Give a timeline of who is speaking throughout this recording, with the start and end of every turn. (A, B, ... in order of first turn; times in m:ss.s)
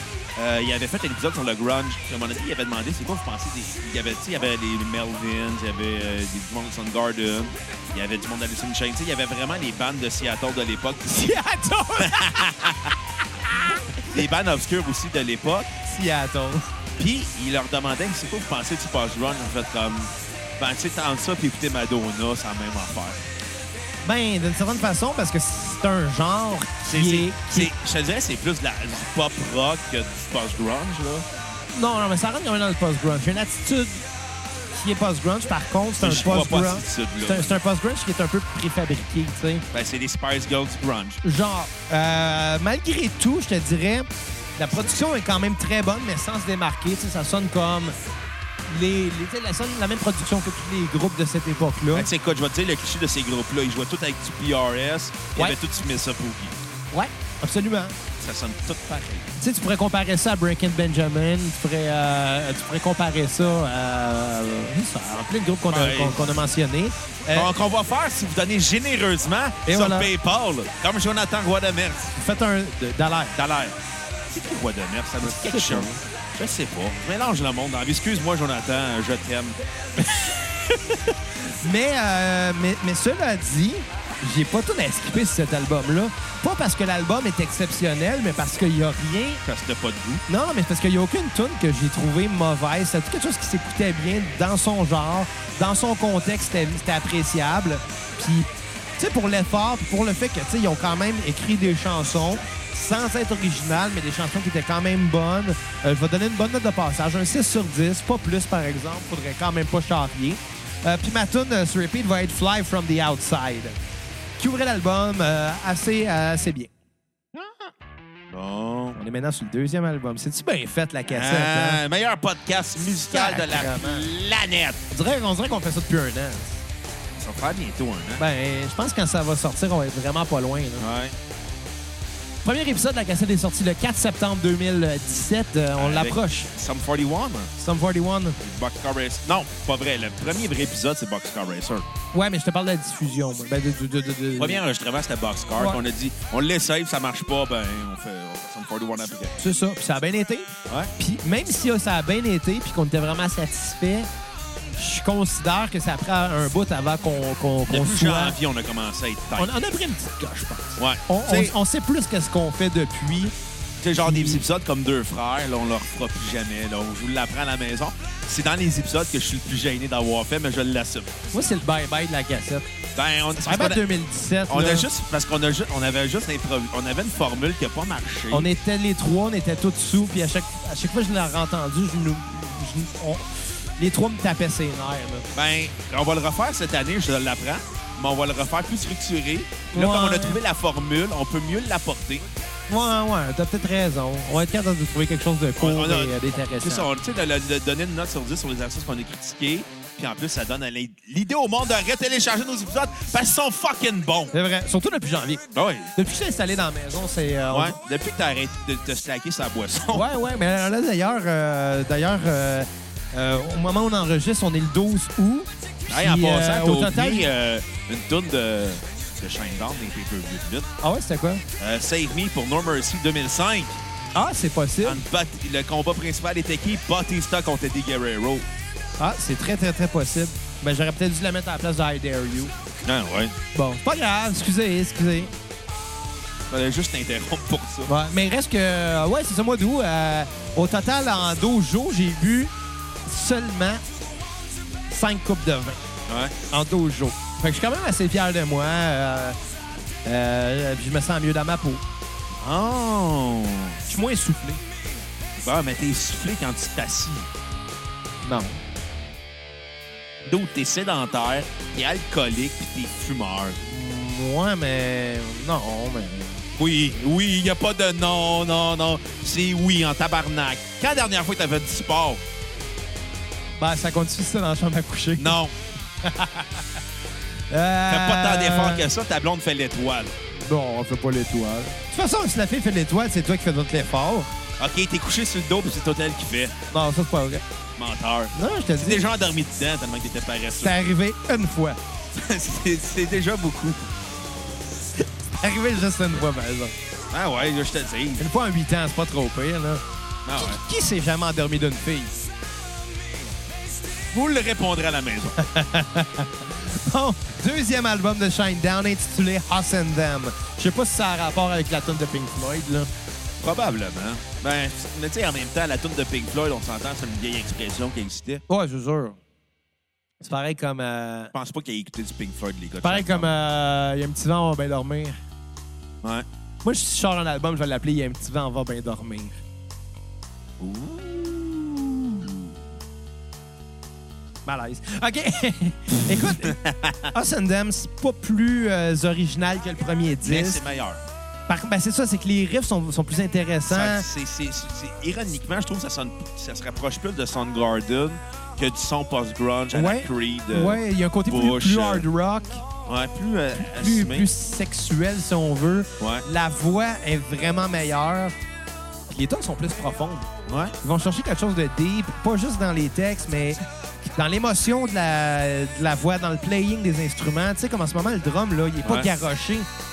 0:00.4-0:11.2 A
0:11.1-0:12.9 B
0:12.0-0:12.9 A
0:13.5-0:13.8 B
0:14.0-0:15.7 A
0:15.8-0:16.7 B
0:17.0-0:23.2 A
0:24.0-0:27.7 B
0:26.9-0:31.3 A
0:31.7-0:34.0 B
0:34.7-0:39.7 B
0:36.0-0:37.6 A
0:39.7-0:41.2 A
0:41.2-0:48.0 B
0:48.7-0:52.1 B
0:51.9-0:56.6 A
0:56.9-0:58.0 B
0:58.2-0:59.3 A
0:59.4-1:07.5 B
1:05.7-1:06.4 A
1:07.3-1:12.1 A
1:09.6-1:10.1 B
1:12.2-1:13.4 B
1:13.4-1:13.8 A
1:14.3-1:19.6 A
1:15.2-1:16.0 B
1:20.0-1:29.4 B
1:29.4-1:30.2 A
1:30.3-1:53.8 B
1:54.4-1:56.7 B
1:57.3-1:57.7 A
1:58.3-1:59.0 A
1:59.0-2:01.8 B
2:01.1-2:04.8 A
2:03.1-2:04.1 B
2:04.9-2:06.6 B
2:07.2-2:08.2 A
2:08.2-2:10.9 B
2:10.8-2:11.2 A
2:12.4-2:16.5 B
2:15.8-2:17.5 A
2:17.6-2:18.4 B
2:18.4-2:21.9 A
2:22.1-2:24.6 B
2:24.4-2:29.4 A
2:29.4-2:34.1 B
2:30.7-2:30.9 A
2:34.8-2:38.4 B
2:37.7-2:39.5 A
2:39.4-2:43.3 B
2:40.8-2:41.5 A
2:43.8-2:51.2 A
2:44.0-2:44.4 B
2:51.3-2:52.7 B
2:53.0-2:53.8 A
2:53.4-2:54.9 B
2:54.5-2:58.5 A
2:58.3-3:03.3 B
3:03.8-3:05.3 B
3:05.3-3:12.3 A
3:09.7-3:10.4 B
3:12.7-3:16.9 B
3:15.6-3:24.3 A
3:24.3-3:25.4 B
3:25.5-3:25.9 A
3:26.0-3:27.8 B
3:27.5-3:30.1 A
3:29.9-3:37.3 B
3:35.9-3:40.7 A
3:40.8-3:41.4 B
3:41.6-3:43.8 A
3:44.2-3:45.0 B
3:44.8-3:48.5 A
3:49.0-3:52.5 B
3:52.9-3:53.4 A
3:53.5-3:55.3 B
3:56.5-3:57.9 A
3:57.9-4:02.5 B
4:03.1-4:03.8 B
4:04.9-4:05.8 B
4:06.1-4:06.4 A
4:06.5-4:09.4 B
4:10.0-4:11.8 B
4:12.4-4:13.8 A
4:13.9-4:14.6 B
4:15.4-4:17.3 A
4:18.2-4:18.6 B
4:20.2-4:23.6 A
4:23.6-4:26.5 B
4:26.6-4:32.2 A
4:33.6-4:35.4 B
4:35.2-4:35.6 A
4:36.0-4:36.6 B
4:37.5-4:38.9 B
4:37.9-4:40.1 A
4:40.4-4:44.3 B
4:44.6-4:46.6 A
4:46.7-4:47.4 B
4:47.8-4:50.8 A
4:48.3-4:49.0 B
4:50.6-4:51.8 B
4:52.1-4:54.0 A
4:55.4-4:56.8 B
4:57.1-4:58.2 A
4:58.2-4:59.8 B
5:00.2-5:00.6 A
5:00.4-5:02.1 B
5:04.1-5:05.4 A
5:05.4-5:12.9 B
5:13.4-5:18.4 A
5:18.5-5:19.2 B
5:20.2-5:21.3 B
5:21.3-5:23.3 A
5:22.8-5:25.2 B
5:26.6-5:29.3 B
5:30.6-5:32.5 A
5:34.5-5:36.6 B
5:36.3-5:37.1 A
5:37.1-5:40.6 B
5:40.2-5:41.0 A
5:41.5-5:44.1 B
5:43.7-5:52.1 A
5:49.7-5:52.6 B
5:52.9-5:54.3 A
5:53.6-5:58.3 B
5:56.0-5:56.2 A
5:59.1-6:00.3 B
6:00.5-6:00.8 A
6:00.8-6:09.7 B
6:08.8-6:09.1 A